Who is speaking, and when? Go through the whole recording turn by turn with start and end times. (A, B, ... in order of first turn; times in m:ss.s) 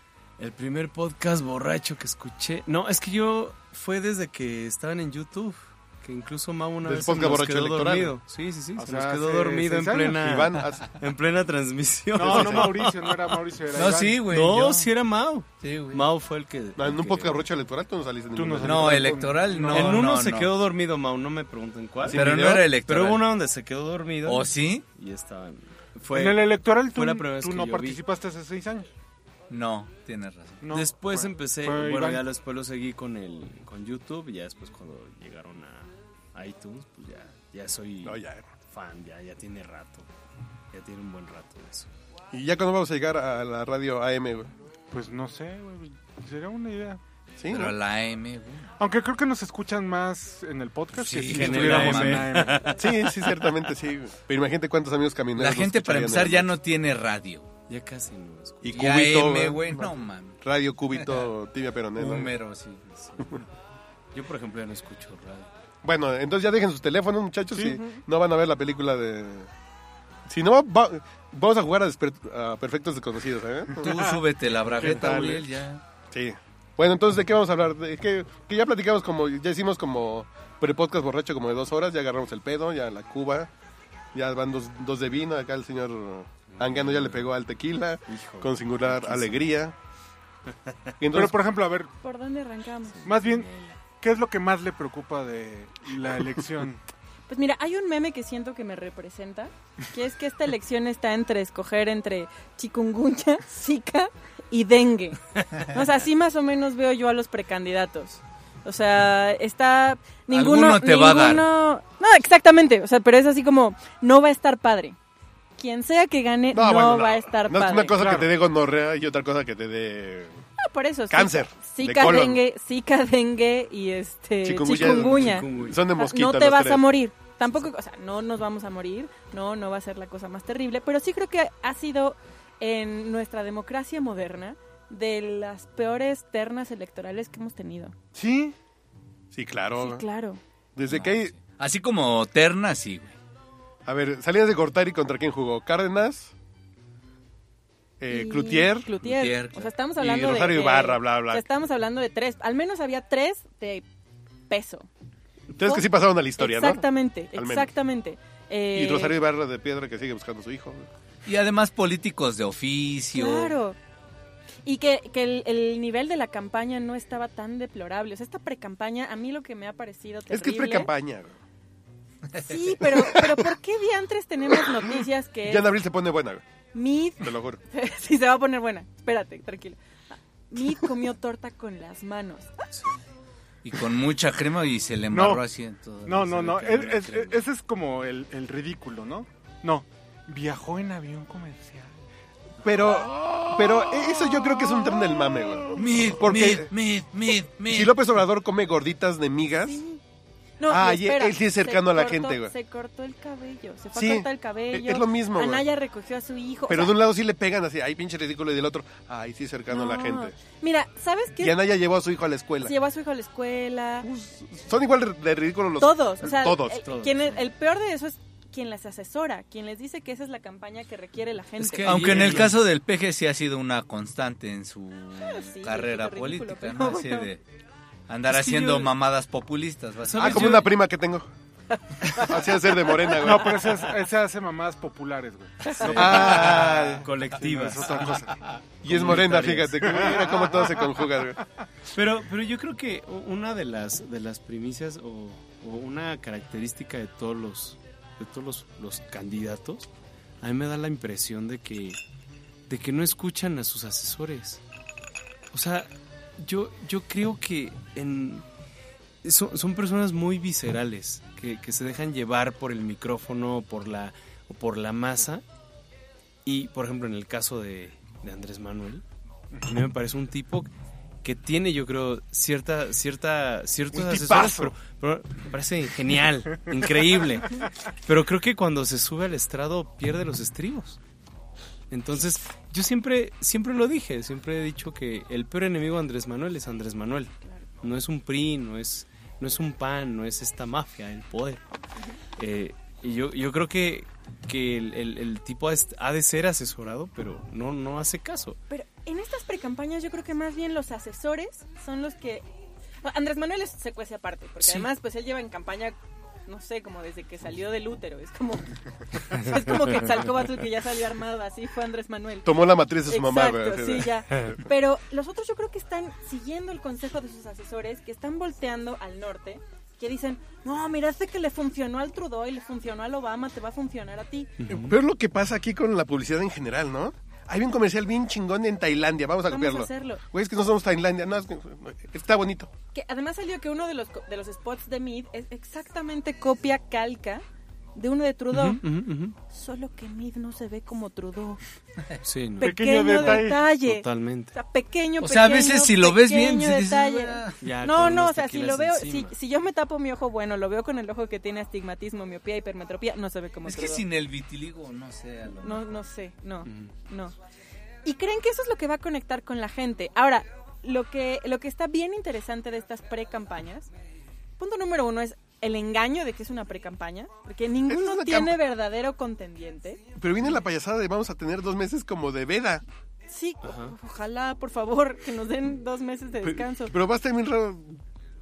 0:00.4-0:13.2 A
0:06.8-0:08.2 B
0:08.8-0:10.2 C
0:10.2-0:10.9 B
0:12.1-0:14.2 C
0:12.3-0:12.6 D
0:13.7-0:14.9 D
0:14.3-0:17.4 A
0:15.6-0:16.0 D
0:16.8-0:19.3 B
0:18.4-0:20.0 C
0:18.6-0:20.5 D
0:19.7-0:28.0 A
0:22.0-0:22.7 B
0:22.1-0:23.3 D
0:24.2-0:24.8 D
0:26.1-0:28.9 C
0:29.5-0:30.6 D
0:30.6-0:32.3 C
0:30.7-0:40.1 A
0:38.0-0:38.5 B
0:40.7-0:41.9 A
0:42.3-0:44.5 B
0:44.9-0:47.0 C
0:47.4-0:47.8 B
0:47.5-0:48.7 D
0:48.8-0:52.9 C
0:50.9-0:52.5 D
0:51.1-0:52.9 A
0:52.8-0:56.5 B
0:55.4-0:57.5 D
0:57.7-0:58.7 A
0:58.6-1:02.3 B
0:58.7-1:00.4 D
1:00.9-1:01.3 D
1:02.0-1:03.4 D
1:03.0-1:03.3 A
1:04.1-1:05.5 A
1:05.8-1:09.5 B
1:07.6-1:07.8 C
1:07.7-1:08.0 E
1:10.3-1:13.9 B
1:13.8-1:15.4 C
1:13.8-1:15.8 D
1:16.1-1:23.5 B
1:24.1-1:29.8 B
1:26.5-1:27.3 A
1:28.1-1:29.5 A
1:30.7-1:30.9 A
1:31.0-1:31.4 B
1:31.1-1:31.9 C
1:32.0-1:33.0 E
1:32.9-1:33.8 A
1:33.1-1:33.5 C
1:34.0-1:36.8 C
1:37.3-1:55.0 E
1:50.3-1:51.5 D
1:55.6-1:58.0 E
1:56.5-2:00.4 B
1:57.9-1:58.3 C
2:00.6-2:17.9 E
2:01.1-2:02.4 B
2:04.4-2:06.8 B
2:04.8-2:05.8 A
2:18.1-2:18.6 C
2:19.3-2:20.0 B
2:19.8-2:20.4 E
2:20.8-2:21.3 B
2:20.9-2:23.2 D
2:23.9-2:26.3 B
2:28.0-2:28.9 B
2:28.1-2:33.8 E
2:29.0-2:29.7 D
2:30.0-2:31.4 B
2:34.5-2:34.9 E
2:35.6-2:37.7 B
2:35.6-2:35.9 E
2:36.4-2:39.2 E
2:38.7-2:40.9 B
2:41.2-2:43.6 D
2:43.1-2:43.8 E
2:44.6-2:50.9 E
2:50.3-2:51.4 B
2:52.4-2:55.7 E
2:52.8-2:53.5 B
2:54.6-2:56.4 B
2:56.7-3:02.5 E
2:57.2-2:57.6 B
3:02.7-3:03.0 A
3:03.6-3:07.4 D
3:05.1-3:05.4 C
3:06.0-3:12.0 C
3:12.6-3:16.7 B
3:15.8-3:18.0 D
3:17.7-3:19.8 B
3:19.6-3:20.0 E
3:20.6-3:27.0 E
3:20.7-3:22.5 B
3:23.9-3:25.7 B
3:26.7-3:30.4 B
3:29.7-3:31.6 E
3:31.4-3:32.7 B
3:32.6-3:34.1 E
3:34.0-3:36.8 B
3:35.8-3:42.4 E
3:36.6-3:37.5 A
3:41.6-3:42.6 A
3:41.8-3:47.4 D
3:45.2-3:47.3 E
3:48.1-3:50.6 D
3:48.3-3:48.9 A
3:50.0-3:50.7 A
3:50.2-3:51.3 B
3:52.0-3:53.2 E
3:52.2-3:53.7 B
3:53.2-3:56.6 C
3:55.7-3:56.1 E
3:55.8-3:58.1 A
3:55.9-3:57.1 B
3:57.4-3:58.4 C
3:58.8-4:01.4 B
3:58.9-4:00.1 A
3:59.9-4:00.8 C
4:01.9-4:09.9 A
4:10.4-4:12.0 A
4:12.7-4:14.6 A
4:15.5-4:18.4 A
4:19.2-4:25.4 A
4:26.4-4:29.0 A
4:29.6-4:30.7 A
4:31.2-4:41.0 A
4:33.9-4:34.7 C
4:41.9-4:51.6 A
4:52.4-4:58.6 A
4:58.7-5:02.5 E
5:03.0-5:12.5 E
5:12.4-5:14.6 B
5:13.1-5:24.6 E
5:24.6-5:25.0 A
5:24.7-5:32.7 B
5:29.5-5:30.2 E
5:32.9-5:37.4 E
5:38.0-5:38.8 E
5:38.5-5:39.4 A
5:39.5-5:41.6 E
5:42.2-5:44.6 A
5:42.6-5:54.0 E
5:42.6-5:43.6 C
5:45.2-5:47.6 D
5:47.6-5:49.4 A
5:53.6-5:56.0 D
5:55.6-5:57.4 E
5:56.6-5:56.9 A
5:58.0-6:03.9 E
6:04.6-6:10.0 E
6:07.9-6:08.6 B
6:10.2-6:12.8 B
6:13.3-6:17.0 E
6:13.6-6:14.0 A
6:16.4-6:18.0 B